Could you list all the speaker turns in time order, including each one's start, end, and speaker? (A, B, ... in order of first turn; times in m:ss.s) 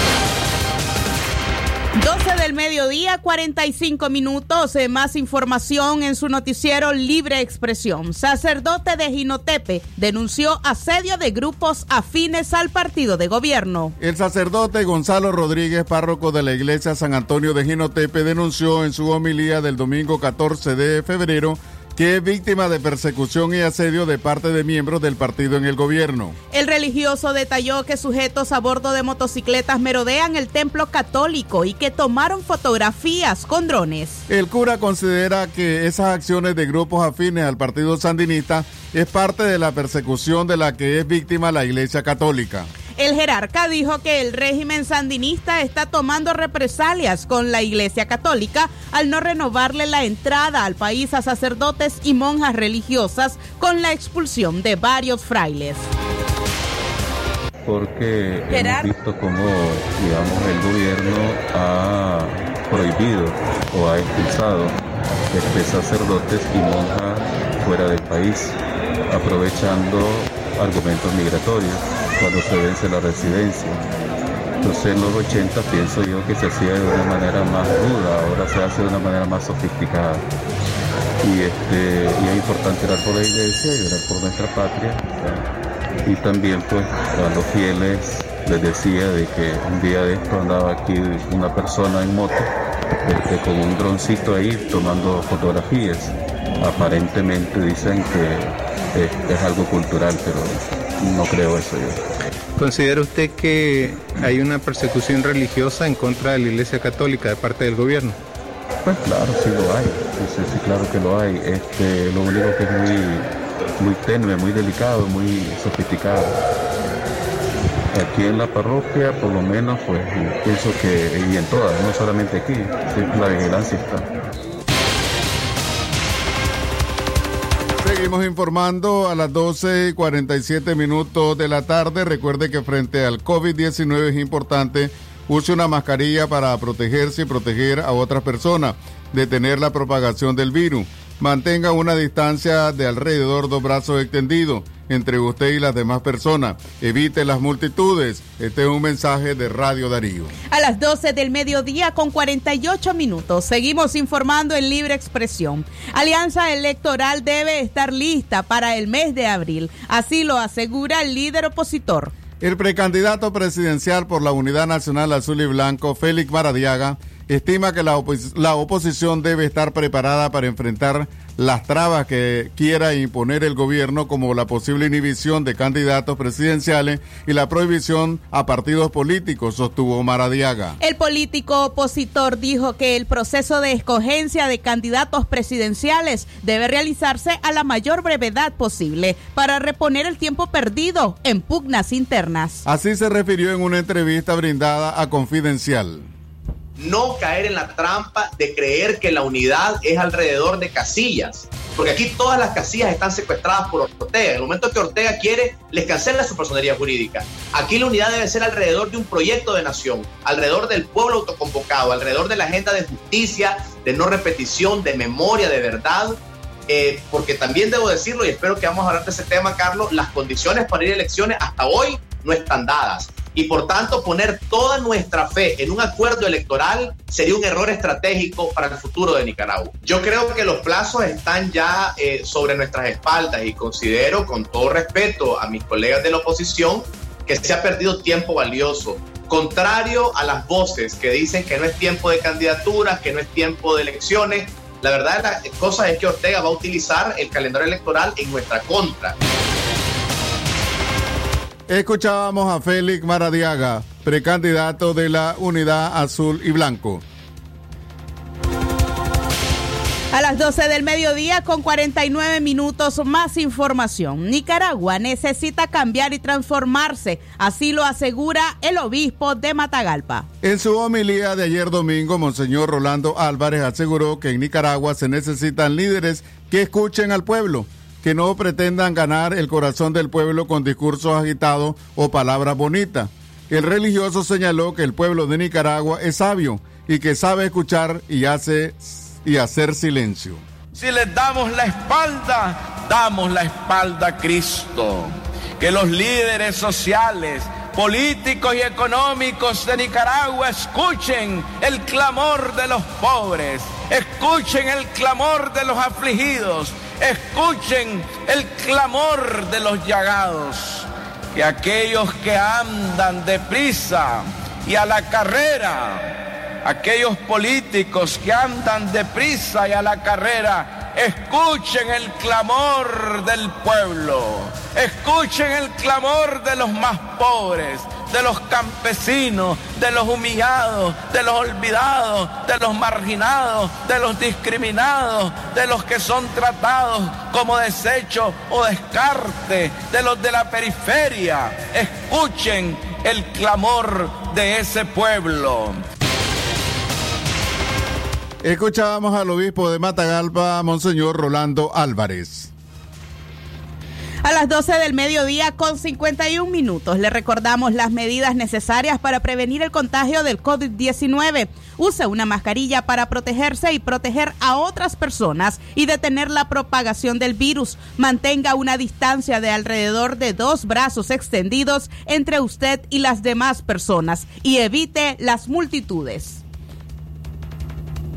0:02.0-0:13.9 A
0:14.0-0:26.4 B
0:26.5-0:34.2 A
0:34.3-0:42.7 B
0:43.0-0:55.9 A
0:57.6-1:04.8 C
0:58.5-0:58.9 A
1:05.3-1:08.6 C
1:09.1-1:13.9 C
1:14.6-1:20.2 C
1:21.2-1:25.4 C
1:26.0-1:32.5 C
1:33.0-1:42.0 C
1:42.6-1:48.2 D
1:48.8-1:56.4 C
1:57.9-2:04.1 C
2:07.8-2:30.3 B
2:30.5-2:42.1 A
2:42.4-3:00.8 B
3:00.8-3:12.6 A
3:12.6-3:16.1 B
3:16.8-4:09.2 E
4:11.7-4:17.0 B
4:20.1-4:30.3 A
4:30.4-4:50.4 B
4:50.7-5:45.8 F
5:48.4-5:52.5 B
5:54.2-6:16.4 A